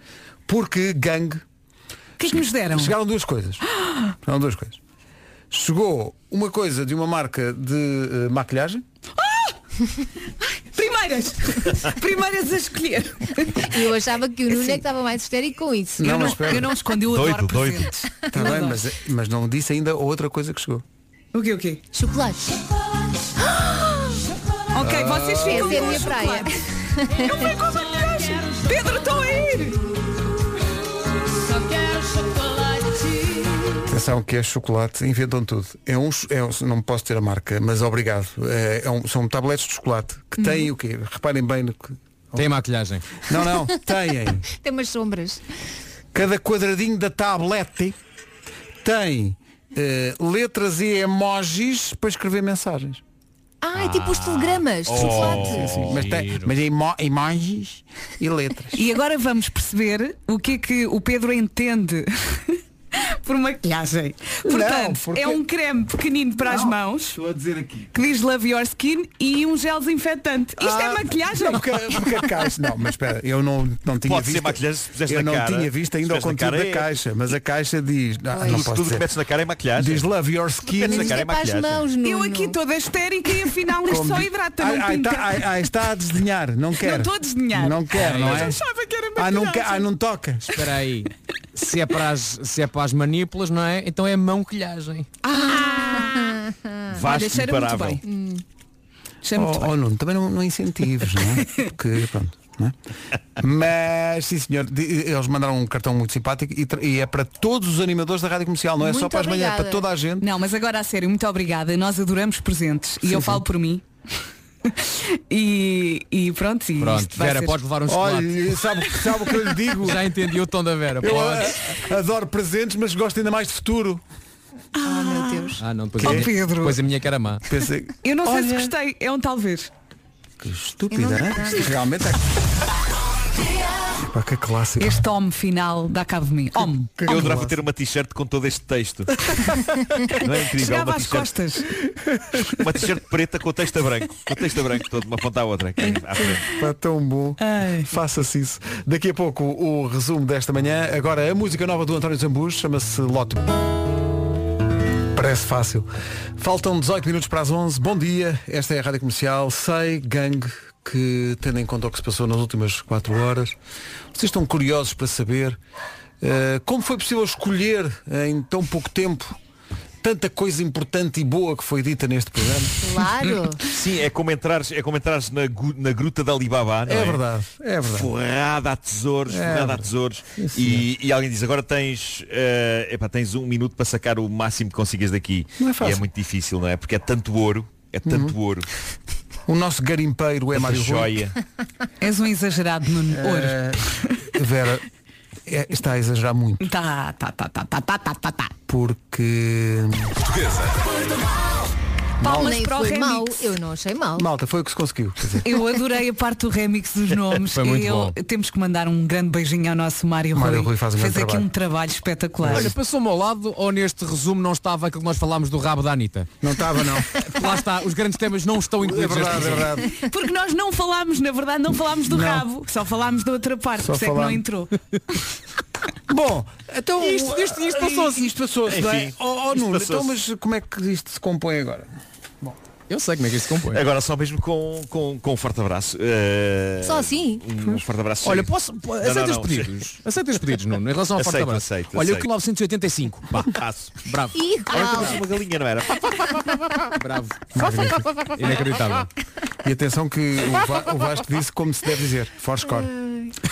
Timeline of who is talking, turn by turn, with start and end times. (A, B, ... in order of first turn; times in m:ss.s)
0:00.5-0:01.4 A
0:02.2-0:03.0 B
0:02.3-0:03.6 A
0:04.2-0:04.8 A
0:05.5-0:08.8 A
0:09.2-0:09.6 B
0:10.7-0:13.9 B
0:13.6-0:16.3 C
0:14.5-0:14.8 B
0:16.0-0:16.7 A
0:16.0-0:18.8 B
0:17.1-0:18.0 D
0:18.3-0:20.8 A
0:21.3-0:21.8 B
0:21.9-0:22.6 C
0:23.4-0:24.2 C
0:24.7-0:29.8 B
0:24.8-0:26.1 A
0:25.5-0:27.6 C
0:33.9-0:42.5 A
0:42.4-0:43.0 E
0:43.2-0:44.4 A
0:44.5-0:45.4 C
0:46.1-0:48.0 A
0:48.8-0:53.0 A
0:53.6-0:55.7 C
0:53.8-0:56.0 D
0:54.9-0:58.9 A
0:55.8-0:56.4 E
0:58.8-1:07.2 B
1:04.4-1:05.4 A
1:06.4-1:08.0 A
1:07.9-1:12.0 B
1:10.6-1:19.1 A
1:14.0-1:16.9 D
1:18.3-1:18.6 C
1:18.4-1:20.1 D
1:19.8-1:21.2 A
1:20.8-1:22.6 C
1:20.8-1:21.9 D
1:22.0-1:25.6 B
1:23.9-1:28.6 A
1:26.8-1:29.9 B
1:28.0-1:28.6 E
1:29.2-1:30.6 A
1:30.6-1:35.1 E
1:35.2-1:36.4 B
1:36.9-1:38.0 D
1:37.0-1:38.0 B
1:38.0-1:38.4 C
1:39.2-1:39.7 B
1:39.4-1:42.8 A
1:43.4-1:50.3 A
1:48.8-1:49.8 C
1:50.2-1:53.8 B
1:53.0-1:53.4 A
1:54.7-1:57.6 B
1:56.8-1:58.3 E
1:57.9-2:00.1 A
1:59.0-1:59.2 B
1:59.8-2:01.6 E
2:01.0-2:04.0 A
2:04.8-2:06.8 B
2:04.8-2:05.6 C
2:05.6-2:07.4 E
2:06.0-2:06.3 A
2:07.5-2:08.7 A
2:08.0-2:09.7 B
2:10.4-2:12.2 A
2:10.9-2:11.7 C
2:14.0-2:15.0 A
2:14.8-2:17.0 B
2:17.0-2:17.6 A
2:17.1-2:19.5 D
2:20.2-2:21.3 D
2:20.6-2:21.7 B
2:22.0-2:22.4 A
2:22.6-2:26.4 D
2:25.9-2:33.6 A
2:27.4-2:27.9 B
2:35.1-2:43.6 A
2:44.1-2:45.6 A
2:46.2-2:49.4 A
2:50.0-2:52.8 A
2:52.8-2:53.6 C
2:53.7-2:57.2 D
2:56.9-2:58.1 A
2:57.9-3:08.7 D
2:59.3-3:00.9 A
3:05.6-3:06.1 A
3:08.0-3:08.4 A
3:09.5-3:11.3 A
3:10.5-3:11.3 D
3:12.0-3:13.6 B
3:13.1-3:14.8 A
3:15.5-3:16.7 A
3:16.6-3:18.5 B
3:18.7-3:20.2 A
3:22.2-3:23.4 B
3:22.2-3:24.3 C
3:22.2-3:22.5 A
3:24.2-3:25.5 A
3:25.4-3:32.7 B
3:27.5-3:28.2 E
3:30.3-3:31.5 A
3:32.5-3:36.3 E
3:36.4-3:37.2 A
3:37.2-3:39.7 E
3:38.8-3:40.0 A
3:39.9-3:44.7 B
3:42.1-3:42.4 A
3:43.8-3:44.4 A
3:46.1-3:51.9 A
3:47.0-3:48.3 E
3:48.7-3:50.2 D
3:52.9-3:53.8 E
3:53.7-3:59.7 D
3:56.8-3:57.4 C
3:58.2-4:05.1 E
4:01.2-4:02.3 D
4:03.4-4:04.0 D
4:04.3-4:05.2 C
4:04.7-4:06.3 D
4:06.9-4:09.1 E
4:07.5-4:08.1 A
4:09.6-4:12.9 A
4:12.9-4:13.3 C